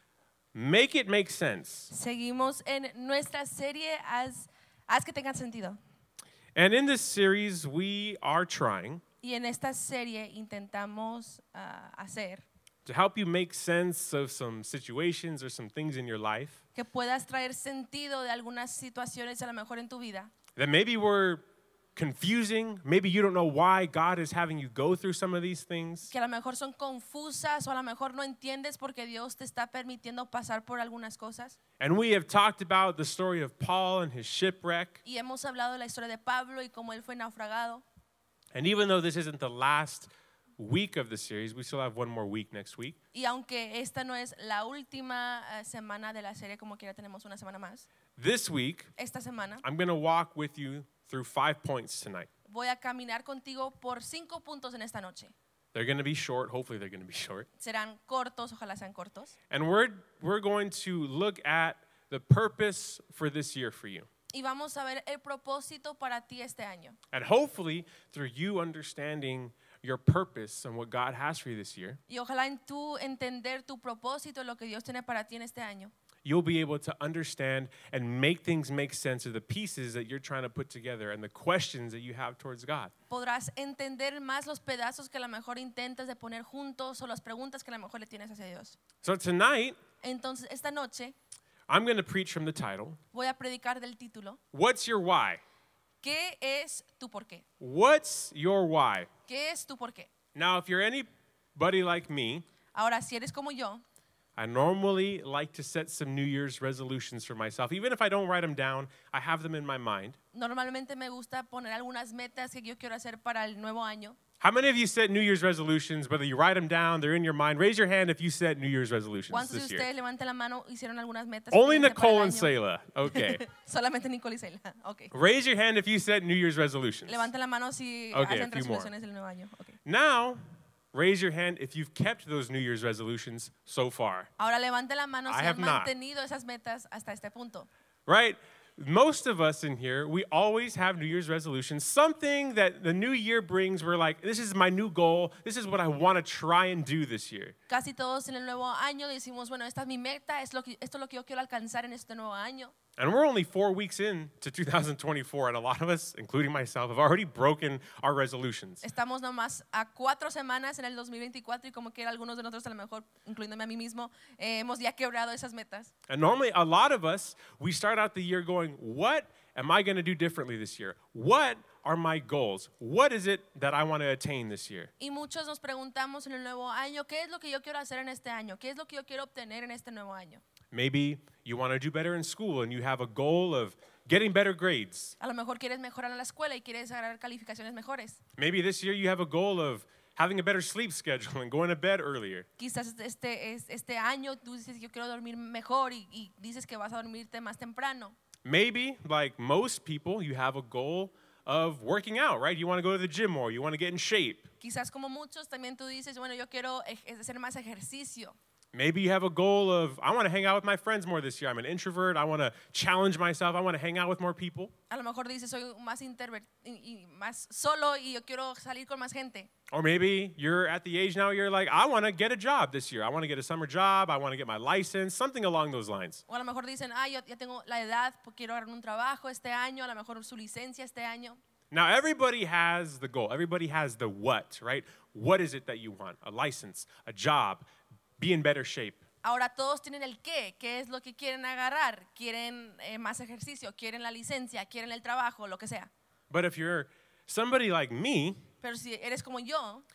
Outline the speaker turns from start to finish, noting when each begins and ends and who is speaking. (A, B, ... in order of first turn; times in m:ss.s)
0:00.5-0:01.9 A
0:01.9-0:05.8 B
0:06.5-0:09.0 A
0:09.2-0:12.4 B
0:12.8-0:16.6 A
0:16.7-0:20.3 B
0:20.6-0:21.4 A
0:21.9-0:26.1 A
0:26.1-0:31.6 B
0:31.8-0:35.0 A
0:35.0-0:37.8 B
0:38.5-0:43.0 A
0:43.1-0:47.8 B
0:48.2-0:48.9 A
0:49.0-0:49.6 B
0:49.6-0:52.3 A
0:52.5-0:55.3 B
0:55.7-0:57.5 A
0:57.6-0:59.3 B
0:59.5-1:04.1 A
1:04.3-1:07.0 B
1:07.1-1:12.0 A
1:12.1-1:15.9 B
1:16.2-1:22.9 A
1:23.1-1:28.8 B
1:29.0-1:29.8 A
1:30.0-1:31.1 B
1:31.7-1:33.0 A
1:33.1-1:34.4 B
1:34.5-1:35.4 A
1:36.0-1:37.4 B
1:37.6-1:39.1 A
1:39.3-1:40.1 B
1:40.3-1:42.4 A
1:42.7-1:43.8 B
1:44.4-1:50.2 A
1:50.3-1:54.2 B
1:54.4-1:59.9 A
1:59.3-2:02.5 B
2:01.5-2:03.4 A
2:03.0-2:05.1 B
2:05.1-2:07.3 A
2:07.1-2:09.8 B
2:08.1-2:08.9 A
2:09.8-2:10.4 A
2:10.9-2:14.3 A
2:14.4-2:17.7 B
2:15.3-2:15.9 A
2:18.1-2:27.5 A
2:27.7-2:32.7 B
2:33.0-2:38.8 A
2:38.8-2:45.9 B
2:46.1-2:54.9 A
2:55.0-3:00.4 B
3:00.7-3:05.1 A
3:05.2-3:08.2 B
3:08.4-3:12.5 A
3:12.6-3:18.2 B
3:18.4-3:24.5 A
3:24.6-3:28.4 B
3:28.7-3:34.7 A
3:34.9-3:39.5 B
3:39.7-3:46.2 A
3:46.3-3:51.4 B
3:51.7-3:57.7 A
3:58.2-3:59.0 A
3:59.2-4:05.9 B
4:06.3-4:08.5 A
4:08.6-4:09.8 B